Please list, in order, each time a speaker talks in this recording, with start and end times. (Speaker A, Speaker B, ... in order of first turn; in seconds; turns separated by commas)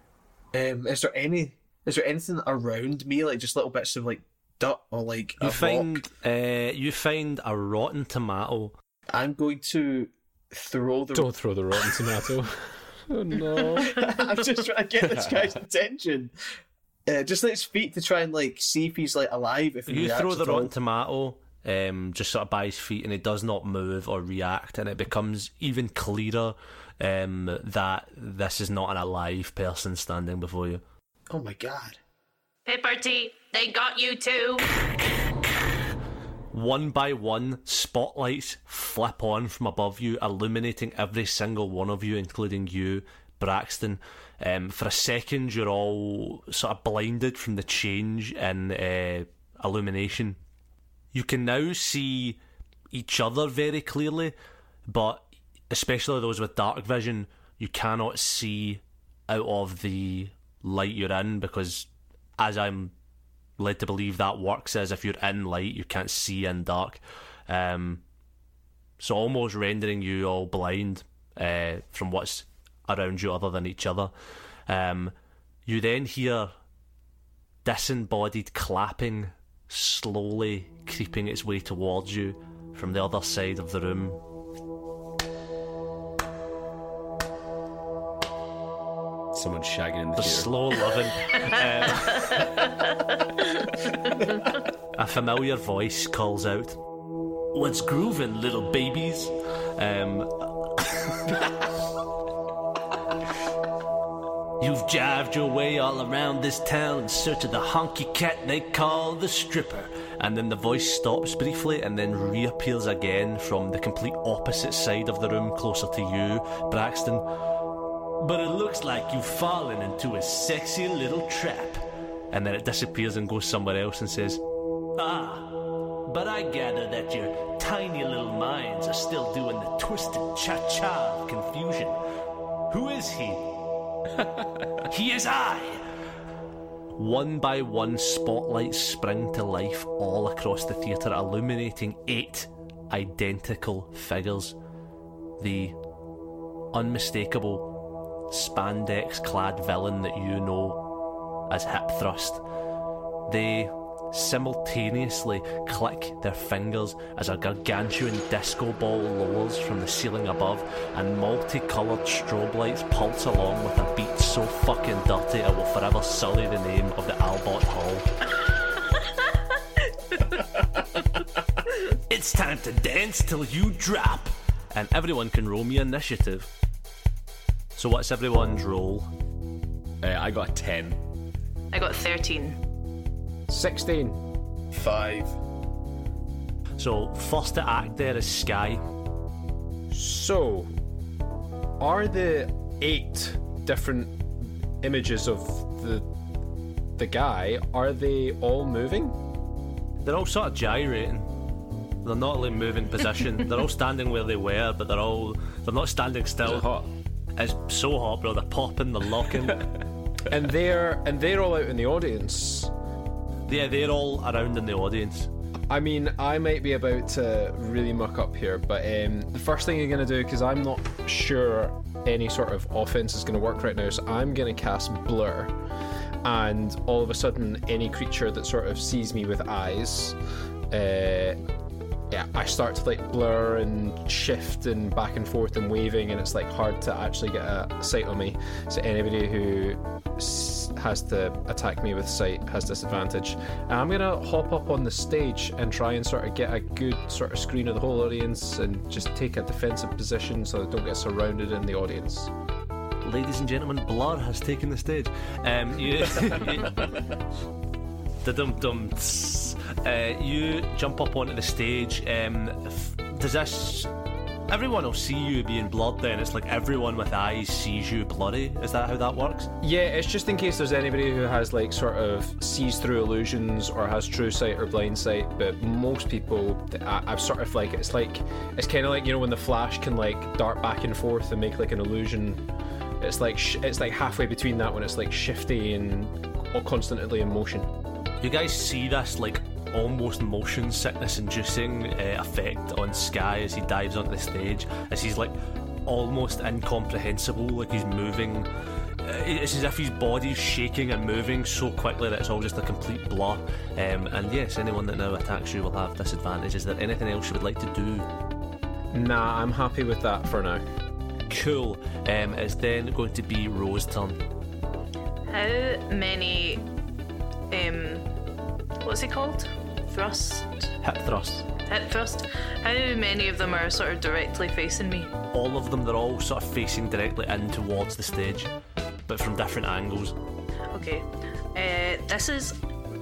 Speaker A: 0.5-6.0, Speaker B: 5.4-8.7, Speaker A: 9.1-12.0, Speaker C: 11.1-14.1, Speaker A: 13.7-16.3, Speaker D: 15.0-15.5, Speaker A: 17.1-20.7, Speaker B: 19.9-30.8, Speaker A: 31.3-32.0, Speaker E: 32.7-34.7, Speaker B: 34.8-35.8, Speaker B: 36.5-50.4, Speaker B: 51.1-52.4, Speaker B: 52.9-54.3, Speaker B: 54.9-61.9, Speaker B: 62.4-62.9, Speaker B: 63.6-68.0, Speaker B: 69.0-74.1, Speaker B: 74.7-75.1, Speaker B: 75.7-76.5, Speaker B: 77.6-84.2, Speaker D: 89.3-90.5, Speaker B: 90.2-92.5, Speaker B: 94.9-96.8, Speaker B: 97.5-101.5, Speaker B: 104.6-117.3, Speaker B: 118.2-124.4, Speaker B: 125.0-132.0, Speaker B: 132.7-133.6, Speaker D: 134.2-134.8, Speaker B: 134.9-135.8, Speaker B: 136.9-144.6, Speaker B: 145.4-145.8, Speaker B: 146.7-147.7, Speaker B: 148.3-150.8, Speaker B: 151.5-152.4, Speaker B: 153.3-168.1, Speaker B: 172.1-176.5, Speaker B: 177.8-179.1, Speaker D: 180.0-181.0, Speaker E: 181.7-182.6, Speaker C: 183.5-184.2, Speaker A: 184.7-185.4, Speaker B: 186.8-188.8, Speaker C: 189.9-190.7, Speaker C: 191.8-196.1, Speaker C: 197.0-199.2, Speaker B: 200.0-201.3, Speaker B: 202.0-206.7, Speaker D: 206.4-206.9, Speaker B: 207.4-209.7, Speaker C: 210.3-212.7, Speaker B: 213.5-215.3, Speaker C: 215.7-225.6, Speaker C: 226.2-230.2, Speaker C: 230.7-231.4, Speaker C: 232.1-252.3, Speaker B: 253.0-257.0, Speaker B: 258.2-263.9, Speaker B: 264.5-269.5, Speaker C: 269.6-282.4, Speaker C: 283.0-287.7, Speaker B: 288.2-298.5, Speaker B: 299.0-308.1, Speaker C: 308.9-310.6, Speaker B: 311.3-314.2, Speaker E: 315.3-316.7, Speaker E: 317.5-318.1, Speaker E: 318.8-320.7, Speaker B: 320.8-321.5, Speaker E: 321.6-325.1, Speaker B: 325.3-328.5, Speaker B: 329.1-330.2, Speaker E: 330.7-332.6